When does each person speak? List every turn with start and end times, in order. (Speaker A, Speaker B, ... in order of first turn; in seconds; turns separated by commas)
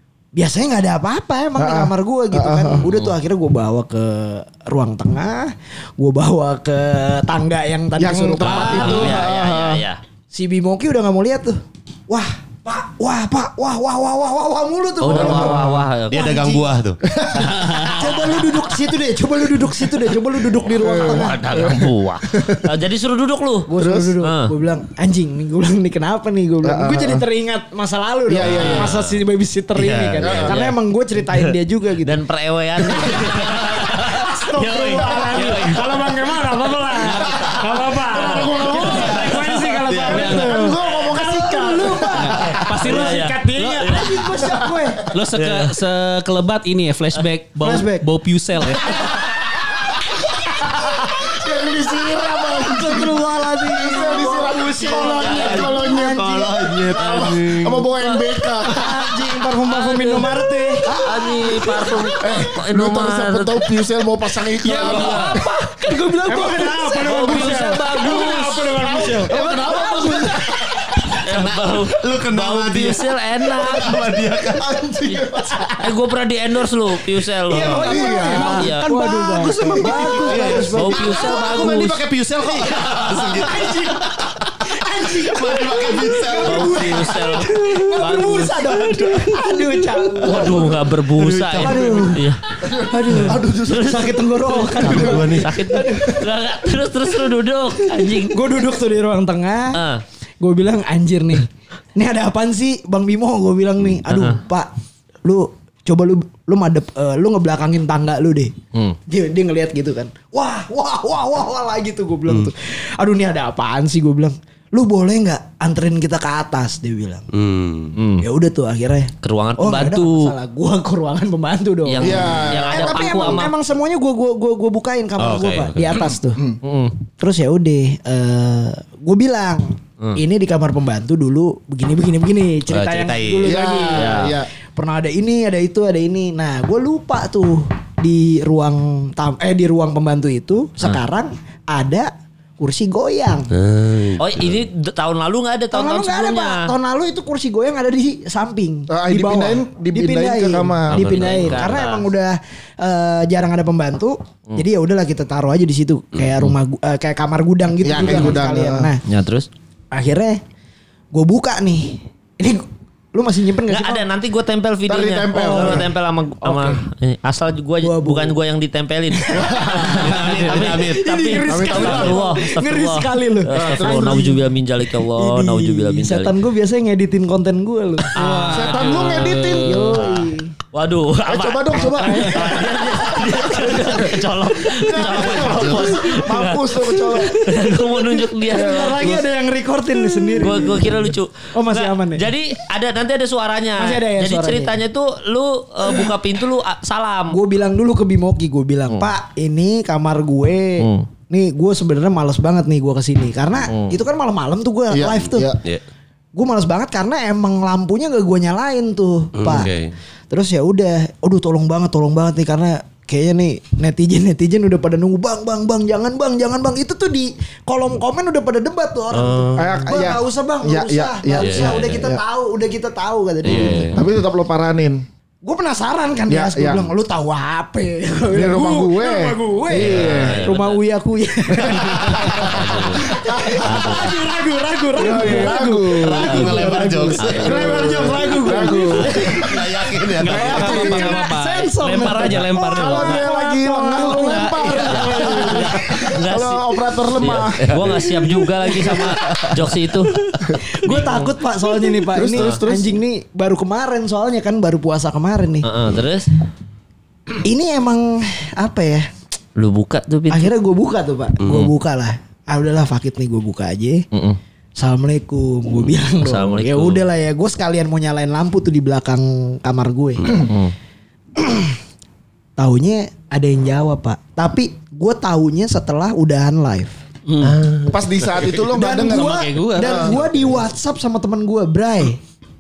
Speaker A: 0.4-9.2, Speaker B: 1.6-2.9, Speaker B: 8.0-9.8, Speaker C: 8.4-10.0, Speaker D: 8.5-9.2, Speaker A: 10.3-16.7, Speaker C: 15.0-16.3, Speaker B: 15.1-15.9, Speaker D: 16.1-17.0, Speaker B: 17.1-17.9, Speaker E: 17.4-18.1, Speaker C: 17.7-18.4, Speaker A: 17.9-21.4, Speaker B: 20.7-22.7, Speaker C: 20.8-23.7, Speaker A: 23.7-32.2, Speaker B: 23.7-24.2, Speaker C: 24.2-24.5, Speaker B: 26.6-27.2, Speaker B: 28.3-29.0, Speaker D: 28.4-29.1, Speaker D: 29.7-30.6, Speaker B: 30.2-30.6, Speaker C: 32.0-34.0, Speaker A: 34.1-45.0, Speaker E: 34.1-35.8, Speaker C: 34.6-35.2, Speaker B: 34.8-35.4, Speaker E: 37.0-37.4, Speaker B: 37.2-39.3, Speaker E: 38.3-40.7, Speaker D: 38.6-40.5, Speaker B: 40.0-42.9, Speaker E: 42.1-44.1, Speaker C: 42.8-44.3, Speaker B: 44.3-45.1, Speaker E: 45.1-49.0, Speaker C: 45.3-45.7, Speaker A: 47.6-48.0, Speaker B: 51.3-58.9, Speaker A: 52.5-56.5, Speaker C: 54.8-55.9, Speaker D: 55.5-58.0, Speaker C: 57.0-57.3, Speaker D: 58.5-59.1, Speaker A: 58.7-60.9, Speaker C: 59.6-60.3, Speaker C: 60.9-63.6, Speaker B: 62.2-65.4, Speaker A: 64.6-65.2, Speaker E: 64.6-65.2, Speaker C: 64.7-65.4, Speaker E: 65.8-67.7, Speaker A: 65.8-70.6, Speaker C: 66.3-69.1, Speaker B: 66.5-70.9, Speaker D: 71.1-74.7, Speaker C: 71.2-74.1, Speaker B: 73.6-75.8, Speaker C: 75.0-78.9, Speaker E: 77.5-80.8, Speaker D: 77.5-77.8, Speaker B: 77.5-78.7, Speaker A: 77.7-82.0, Speaker B: 79.5-81.8, Speaker D: 80.0-87.2, Speaker C: 80.7-82.0, Speaker A: 82.7-90.8, Speaker C: 86.4-89.0, Speaker B: 88.0-88.4, Speaker D: 90.2-90.6, Speaker C: 90.2-92.4, Speaker D: 91.2-92.0, Speaker A: 91.5-92.3, Speaker B: 91.8-94.2, Speaker A: 92.8-96.2, Speaker C: 93.7-98.7, Speaker B: 94.7-95.2, Speaker D: 94.7-95.7, Speaker A: 98.2-99.8, Speaker C: 99.7-100.0, Speaker A: 100.4-104.7, Speaker C: 104.1-104.4, Speaker A: 105.2-108.5, Speaker A: 109.1-117.2, Speaker D: 117.3-117.9, Speaker C: 117.9-118.2, Speaker A: 118.2-126.4, Speaker C: 119.2-120.3, Speaker C: 121.8-123.5, Speaker B: 122.0-123.4, Speaker D: 125.2-126.1, Speaker C: 126.6-127.0, Speaker A: 127.2-143.5, Speaker D: 132.7-133.9, Speaker B: 133.4-134.5, Speaker C: 133.9-134.3, Speaker D: 143.5-144.6, Speaker C: 144.2-146.7, Speaker A: 145.7-159.0, Speaker B: 148.9-151.5, Speaker D: 150.9-151.7, Speaker C: 150.9-152.1, Speaker D: 156.2-156.5, Speaker B: 157.8-158.9, Speaker C: 158.0-158.4, Speaker C: 159.1-159.5, Speaker A: 159.9-160.4, Speaker A: 161.1-164.1, Speaker C: 163.7-176.4, Speaker B: 164.9-165.9, Speaker A: 165.3-165.9, Speaker A: 166.4-166.8, Speaker A: 167.8-168.4, Speaker A: 169.3-174.4, Speaker D: 169.8-172.2, Speaker E: 170.0-170.7, Speaker B: 171.5-172.4, Speaker B: 173.6-174.4, Speaker A: 175.0-178.7, Speaker E: 178.1-180.1, Speaker B: 178.4-180.2, Speaker A: 179.6-180.5, Speaker C: 180.7-188.9, Speaker B: 181.2-182.8, Speaker A: 181.7-184.0, Speaker B: 183.7-184.2, Speaker A: 184.6-186.3, Speaker D: 184.9-186.1, Speaker B: 185.1-187.7, Speaker A: 187.1-192.3, Speaker B: 188.4-189.2, Speaker C: 190.4-197.4, Speaker A: 193.8-194.8, Speaker A: 197.3-205.5, Speaker C: 200.8-201.1, Speaker C: 203.7-204.0, Speaker B: 204.9-205.6, Speaker D: 205.2-205.8, Speaker A: 206.3-209.7, Speaker D: 209.4-209.9, Speaker A: 210.3-224.0, Speaker D: 219.1-219.9, Speaker B: 219.6-222.2, Speaker D: 221.4-222.1, Speaker D: 223.4-224.0, Speaker B: 223.5-225.0, Speaker A: 225.4-239.7, Speaker B: 226.3-226.9, Speaker B: 228.3-230.4, Speaker D: 229.7-230.6, Speaker C: 230.0-230.8, Speaker B: 231.6-232.5, Speaker D: 232.2-233.0, Speaker C: 232.2-233.0, Speaker B: 233.1-233.9, Speaker C: 233.6-234.1, Speaker B: 234.9-239.6, Speaker D: 236.0-238.2, Speaker C: 237.2-237.5, Speaker D: 238.9-241.2, Speaker E: 240.2-243.2, Speaker B: 240.2-241.2, Speaker A: 240.2-246.2, Speaker B: 242.7-248.0, Speaker E: 244.0-245.4, Speaker C: 245.3-251.4, Speaker D: 247.2-248.0, Speaker A: 247.8-249.4, Speaker A: 250.7-255.7, Speaker B: 252.1-253.0, Speaker C: 255.6-256.3, Speaker A: 257.3-259.1, Speaker C: 259.6-260.5, Speaker A: 260.3-264.1, Speaker D: 261.4-261.7, Speaker C: 264.1-264.4, Speaker A: 264.8-270.5, Speaker C: 266.2-267.1, Speaker C: 270.5-270.7, Speaker A: 271.4-271.8, Speaker A: 272.6-276.9, Speaker E: 277.3-277.7, Speaker D: 277.4-278.6, Speaker B: 277.9-280.1, Speaker A: 278.6-282.2, Speaker E: 278.9-280.4